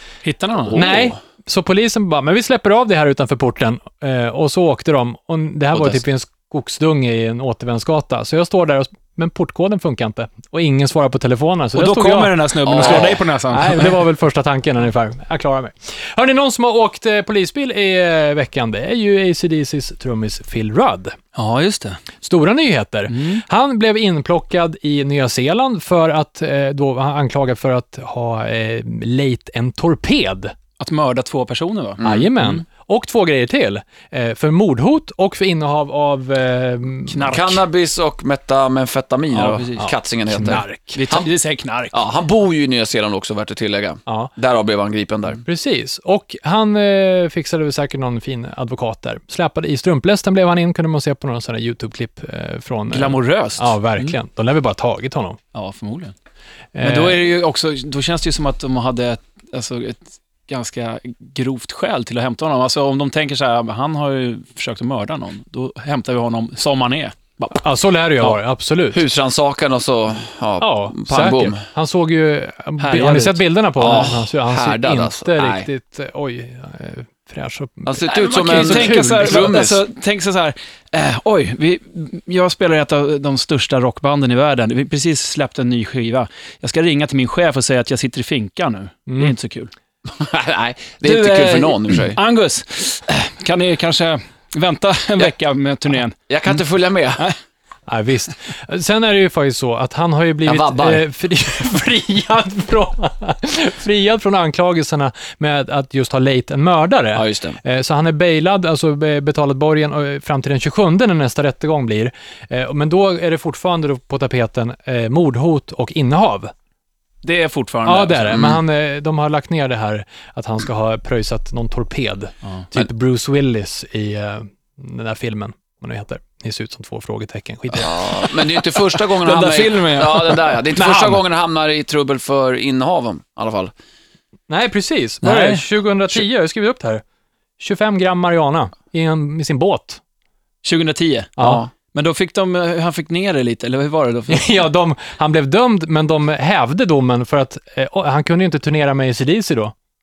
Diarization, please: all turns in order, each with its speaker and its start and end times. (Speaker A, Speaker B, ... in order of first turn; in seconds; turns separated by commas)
Speaker A: 0.2-0.8, Speaker B: 0.7-1.1, Speaker C: 0.7-21.2, Speaker A: 11.8-14.0, Speaker B: 12.7-13.2, Speaker A: 21.4-22.0, Speaker C: 22.2-30.5, Speaker A: 23.1-23.4, Speaker A: 30.8-32.6, Speaker B: 32.0-32.3, Speaker C: 32.0-37.4, Speaker A: 37.1-37.6, Speaker B: 37.3-41.3, Speaker A: 39.3-42.0, Speaker C: 39.8-41.0, Speaker B: 41.9-45.4, Speaker C: 45.5-55.4, Speaker A: 52.9-54.1, Speaker A: 55.5-56.1, Speaker C: 56.8-57.2, Speaker A: 56.8-67.4, Speaker C: 67.6-69.0, Speaker B: 68.9-71.6, Speaker C: 70.6-79.5, Speaker A: 72.8-74.1, Speaker B: 73.8-75.7, Speaker B: 77.9-79.8, Speaker A: 78.1-89.7, Speaker C: 89.1-89.3, Speaker B: 90.1-92.2, Speaker A: 91.0-96.2, Speaker B: 96.3-97.3, Speaker C: 97.9-116.5, Speaker B: 100.5-101.0, Speaker B: 107.2-107.6, Speaker A: 117.2-118.4, Speaker C: 117.8-128.2, Speaker B: 118.3-118.6, Speaker B: 127.7-133.7, Speaker A: 129.1-131.2, Speaker C: 134.5-137.0, Speaker A: 135.2-136.2, Speaker C: 137.6-140.0, Speaker A: 140.6-141.4, Speaker B: 141.4-141.7, Speaker A: 141.9-144.5, Speaker C: 144.3-149.7